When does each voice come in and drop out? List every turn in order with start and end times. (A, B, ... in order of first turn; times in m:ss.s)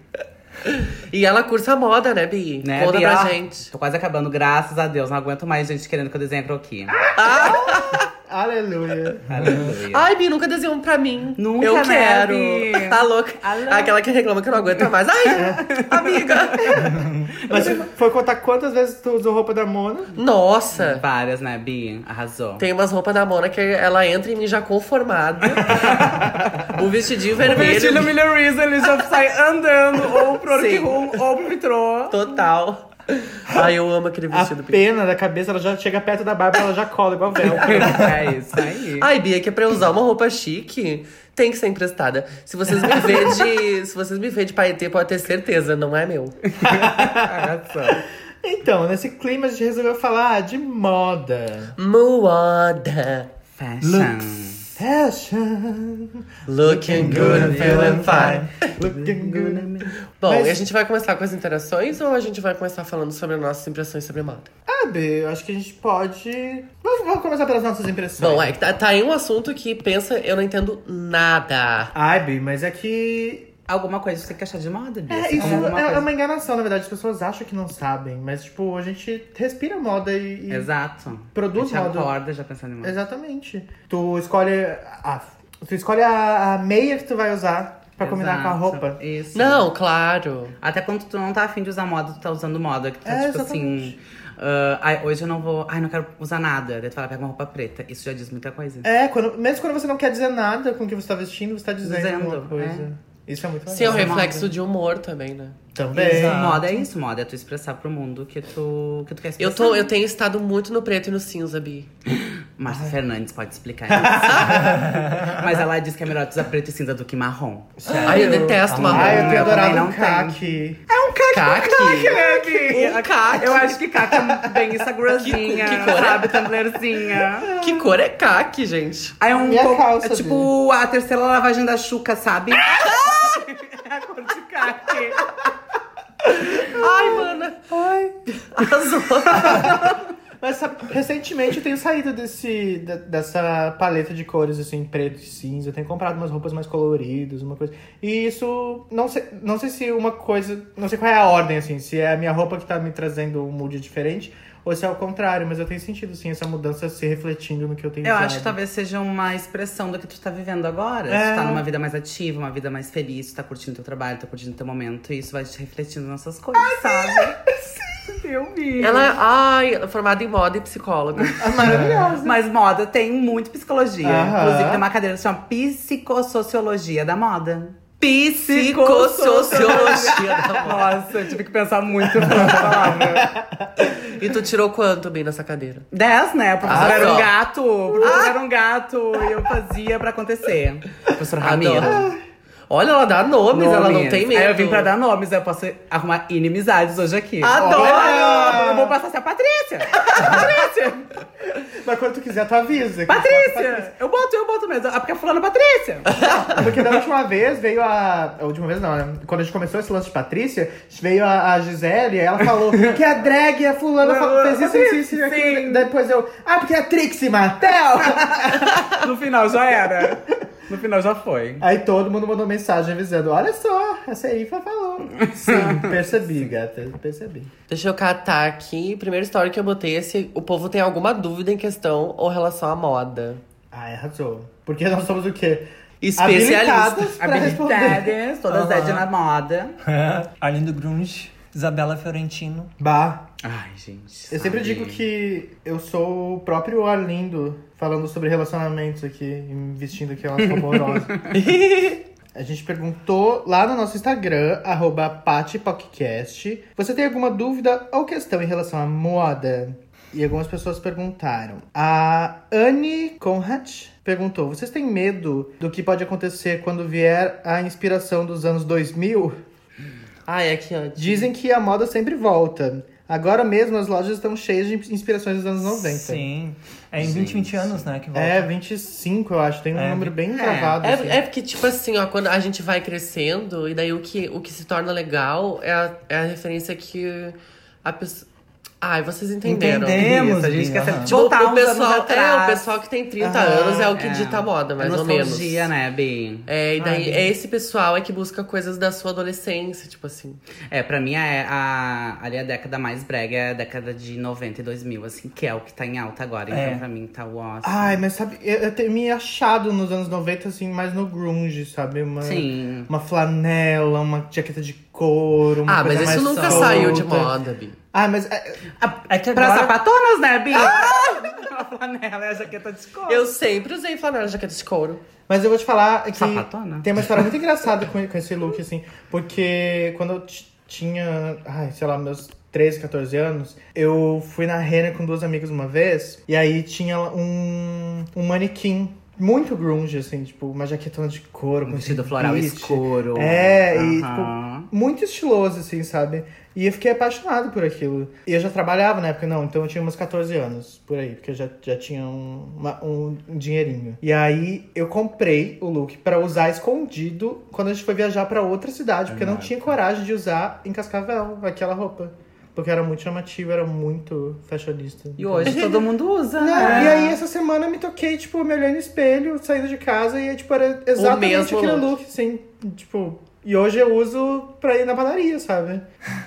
0:00.6-0:03.7 A
0:02.6-0:07.0 B
0:07.1-0:08.1 A
0:07.3-0:09.6 C
0:09.3-0:10.1 B
0:09.9-0:16.9 A
0:11.4-0:14.0 B
0:15.3-0:16.9 B
0:15.3-0:15.6 C
0:16.7-0:20.2 C
0:20.2-0:21.0 A
0:20.8-0:22.6 B
0:22.6-0:28.2 A
0:25.6-0:26.3 B
0:27.4-0:32.2 B
0:30.5-0:31.2 A
0:32.1-0:34.8 A
0:34.3-0:38.3 C
0:37.6-0:39.1 B
0:39.0-0:46.4 A
0:42.9-0:43.5 C
0:46.5-0:48.0 B
0:46.6-0:51.7 C
0:51.8-0:53.3 A
0:53.6-0:54.7 B
0:53.8-0:54.6 D
0:54.8-1:00.7 C
0:56.5-0:58.5 A
0:56.9-0:58.5 D
0:57.3-0:57.8 B
0:58.8-0:59.9 B
1:00.2-1:04.5 A
1:04.7-1:08.6 C
1:08.2-1:11.9 A
1:11.9-1:13.5 C
1:13.7-1:16.1 B
1:15.1-1:20.7 C
1:20.5-1:23.0 B
1:21.3-1:22.1 C
1:22.8-1:29.0 C
1:28.0-1:29.7 B
1:29.3-1:30.6 A
1:30.6-1:38.9 B
1:33.0-1:34.0 C
1:38.8-1:44.5 C
1:41.8-1:42.9 B
1:43.7-1:45.6 A
1:43.8-1:44.4 B
1:45.8-1:46.8 C
1:45.9-1:49.9 B
1:46.0-1:46.8 D
1:49.4-1:51.9 A
1:52.1-1:54.6 B
1:52.7-1:53.0 C
1:53.9-1:55.1 C
1:54.3-1:54.6 A
1:54.6-1:55.4 D
1:55.3-2:00.4 B
1:57.8-2:00.8 C
1:57.9-1:59.2 D
1:58.0-1:59.7 A
2:00.9-2:07.6 B
2:01.3-2:03.8 A
2:02.0-2:03.0 C
2:04.1-2:04.6 C
2:05.2-2:06.5 A
2:07.5-2:09.2 A
2:09.2-2:15.2 B
2:09.3-2:10.5 C
2:12.7-2:13.3 A
2:16.4-2:17.6 A
2:16.4-2:18.2 C
2:18.5-2:19.9 A
2:19.3-2:38.6 C
2:38.0-2:47.4 B
2:41.1-2:41.6 C
2:46.6-2:48.0 C
2:48.1-2:49.1 B
2:48.8-2:51.8 A
2:51.4-2:52.4 C
2:52.2-3:03.3 B
2:54.0-2:54.8 C
2:58.5-3:00.9 A
2:59.5-3:00.7 C
3:02.1-3:04.0 C
3:03.8-3:05.9 A
3:05.9-3:12.1 B
3:06.6-3:07.3 C
3:06.7-3:07.3 A
3:07.9-3:08.2 C
3:08.0-3:08.4 A
3:11.4-3:12.1 A
3:11.8-3:12.2 C
3:12.7-3:14.9 A
3:13.5-3:21.1 B
3:17.4-3:18.7 A
3:17.6-3:19.0 C
3:20.0-3:20.5 A
3:21.7-3:23.9 C
3:23.1-3:26.8 B
3:26.2-3:26.5 A
3:26.2-3:39.0 C
3:34.0-3:35.9 B
3:38.0-3:41.6 B
3:41.6-3:47.5 C
3:45.2-3:45.9 B
3:47.7-3:53.4 A
3:53.7-3:55.7 C
3:56.0-3:57.1 A
3:56.2-3:58.1 C
3:57.2-3:59.8 B
3:58.5-3:59.1 D
3:59.8-4:02.7 D
4:02.8-4:03.3 C
4:03.4-4:05.0 B
4:04.3-4:11.3 C
4:10.9-4:11.2 B
4:11.3-4:12.0 A
4:12.3-4:29.4 C
4:30.3-4:31.3 A
4:31.0-4:36.2 C
4:35.6-4:38.5 D
4:37.0-4:37.8 B
4:38.1-4:41.2 C
4:39.7-4:40.2 D
4:40.3-4:40.8 B
4:40.8-4:48.3 A
4:48.8-4:50.1 A
4:49.4-4:51.2 D
4:50.0-4:52.7 B
4:51.0-4:55.7 A
4:53.2-4:54.0 C
4:53.9-4:56.5 B
4:56.5-5:00.4 A
4:56.8-4:57.3 D
5:00.7-5:08.0 B
5:06.5-5:06.8 D
5:07.6-5:17.3 C
5:12.2-5:12.9 B
5:15.7-5:17.8 A
5:16.0-5:17.0 B
5:17.9-5:18.6 C
5:18.8-5:23.3 B
5:19.1-5:19.8 D
5:20.5-5:21.4 A
5:23.1-5:25.0 A
5:25.3-6:05.7 C
5:26.1-5:26.9 B
5:41.7-5:44.7 B
5:59.1-5:59.7 B
6:05.2-6:07.2 B
6:05.5-6:05.8 A
6:06.4-6:15.8 C
6:06.6-6:06.9 A
6:11.0-6:11.9 A